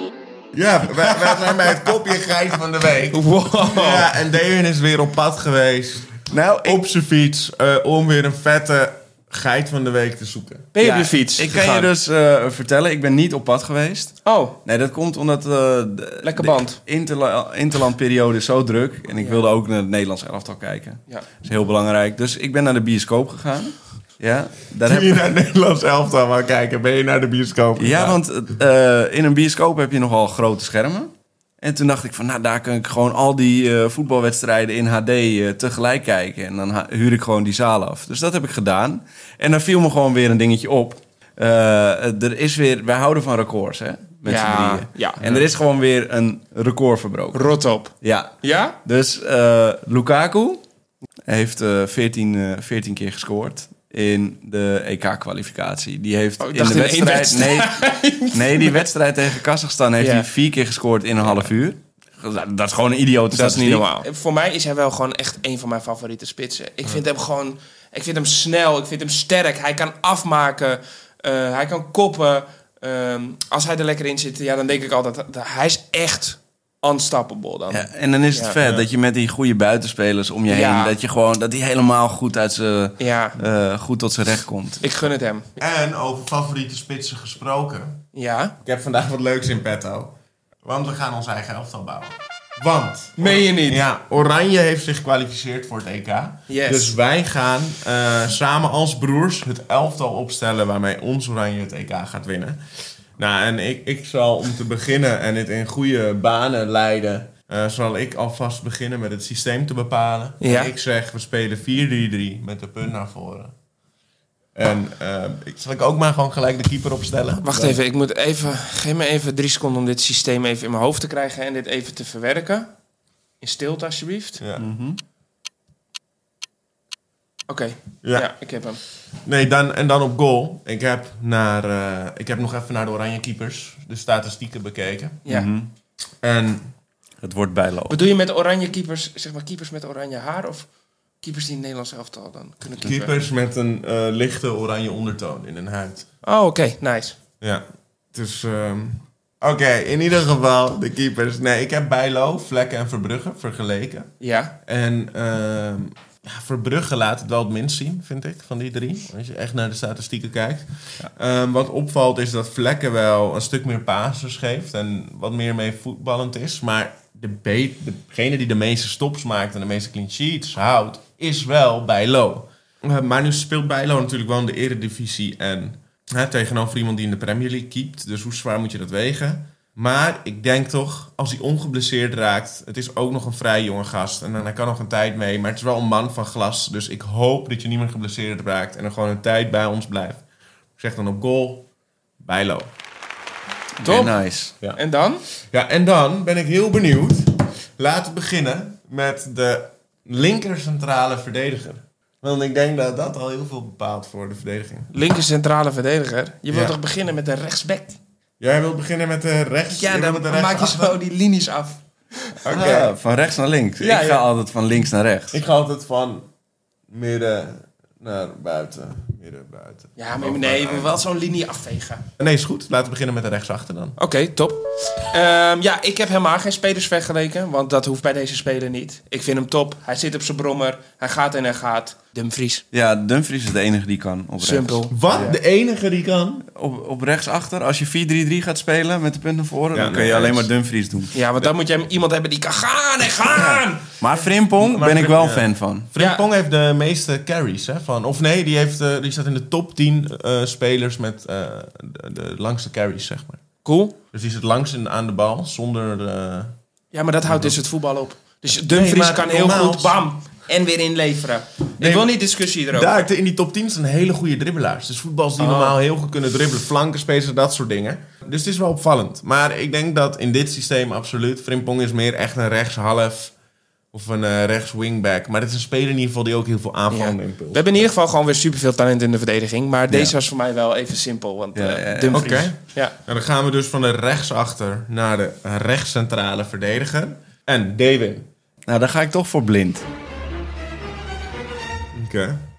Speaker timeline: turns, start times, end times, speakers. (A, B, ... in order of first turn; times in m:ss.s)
0:00.5-0:10.7 A
0:03.1-0:04.1 B
0:06.3-0:06.8 C
0:10.7-0:11.9 B
0:10.8-0:25.3 C
0:14.2-0:14.6 B
0:16.2-0:16.8 B
0:19.2-0:19.4 B
0:24.9-0:28.2 A
0:27.8-0:47.5 C
0:44.2-0:45.2 B
0:47.3-0:48.8 B
0:48.0-0:48.3 C
0:48.8-0:50.6 C
0:51.3-0:57.8 C
0:56.4-0:58.9 B
0:58.3-1:03.9 C
1:00.0-1:00.3 B
1:03.3-1:18.6 B
1:17.7-1:24.8 C
1:20.5-1:21.0 B
1:23.0-1:23.4 B
1:24.8-1:25.6 B
1:25.6-1:28.0 A
1:28.1-1:28.6 B
1:28.6-1:42.6 A
1:33.2-1:33.8 B
1:36.5-1:37.0 B
1:43.2-1:53.5 A
1:50.4-1:50.7 B
1:54.6-1:57.6 A
1:57.4-2:02.7 B
2:03.4-2:04.4 B
2:04.4-2:04.6 A
2:04.6-2:05.0 C
2:07.5-2:08.8 B
2:08.0-2:08.3 A
2:09.2-2:15.2 A
2:15.2-2:15.5 B
2:15.3-2:15.7 C
2:16.2-2:16.7 A
2:17.2-2:18.0 C
2:17.9-2:20.7 B
2:21.2-2:23.3 B
2:22.8-2:26.1 A
2:26.2-2:27.2 B
2:27.4-2:34.1 A
2:34.2-2:34.5 B
2:34.6-3:10.2 A
3:10.8-3:11.7 A
3:12.2-3:12.7 A
3:13.8-3:14.5 C
3:13.8-3:15.2 B
3:15.5-3:24.9 A
3:24.9-3:28.0 B
3:26.5-3:26.8 A
3:28.4-3:31.0 A
3:29.7-3:32.6 B
3:32.4-3:32.9 A
3:32.5-3:35.4 C
3:33.8-3:34.3 B
3:35.3-3:36.3 A
3:36.9-3:40.9 A
3:40.0-3:42.0 B
3:42.2-3:44.0 A
3:44.0-3:52.6 B
3:52.7-3:55.4 C
3:54.4-3:55.0 B
3:54.9-3:56.4 A
3:56.6-4:01.1 C
3:59.7-4:00.5 A
4:01.1-4:04.0 B
4:03.3-4:05.9 C
4:04.6-4:13.4 A
4:06.0-4:06.2 B
4:13.6-4:14.0 B
4:14.1-4:16.5 A
4:16.9-4:23.0 B
4:17.3-4:17.6 A
4:18.6-4:20.0 A
4:21.8-4:22.1 A
4:22.7-4:33.4 A
4:25.4-4:25.8 B
4:33.9-4:37.9 A
4:36.9-4:43.0 B
4:41.6-4:42.4 C
4:42.1-4:48.3 A
4:48.7-4:49.9 C
4:51.9-4:52.4 A